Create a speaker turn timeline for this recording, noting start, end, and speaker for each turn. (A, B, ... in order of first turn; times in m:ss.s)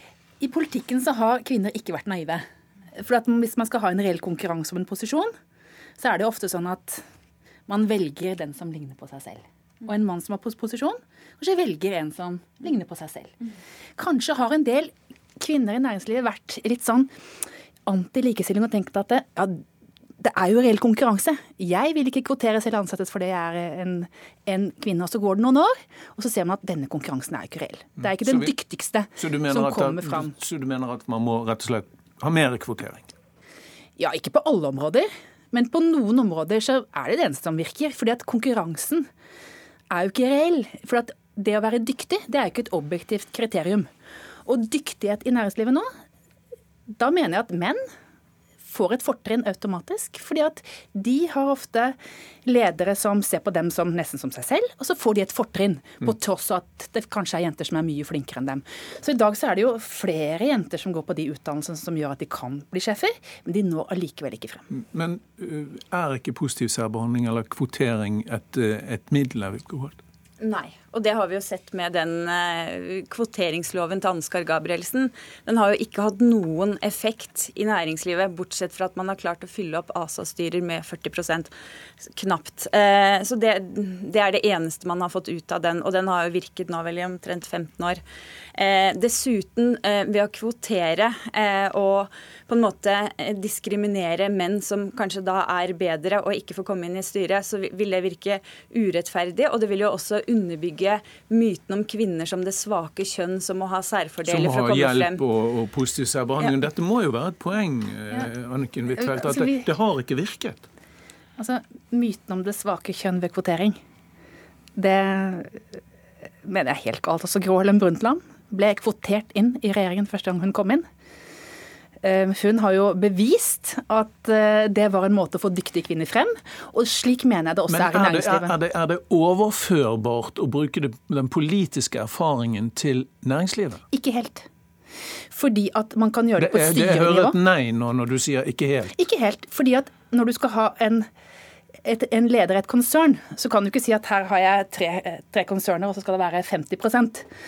0:00.4-0:02.4 A
0:03.0-0:05.3 A
0:06.0-0:07.0 A
0:07.7-0:13.4 A
0:14.0-0:17.1 A
0:17.8-0:19.6 A
0:20.2-0:30.3 A
0:28.0-0:28.5 B
0:29.2-0:33.1 B
0:34.0-0:39.1 A
0:39.9-0:43.9 A
0:44.4-0:45.9 A
0:46.9-0:47.8 A
0:48.6-1:04.7 A
1:04.7-1:10.0 B
1:10.4-1:21.5 C
1:22.1-1:28.0 C
1:28.5-1:45.2 C
1:44.2-1:50.6 B
1:48.9-1:49.7 A
1:51.4-1:53.8 A
1:54.8-1:55.6 A
1:56.4-2:00.8 A
2:02.0-2:08.5 A
2:07.7-2:13.8 B
2:13.9-2:14.4 A
2:15.3-2:17.4 A
2:16.4-2:18.9 B
2:18.9-2:21.1 A
2:21.8-2:27.2 A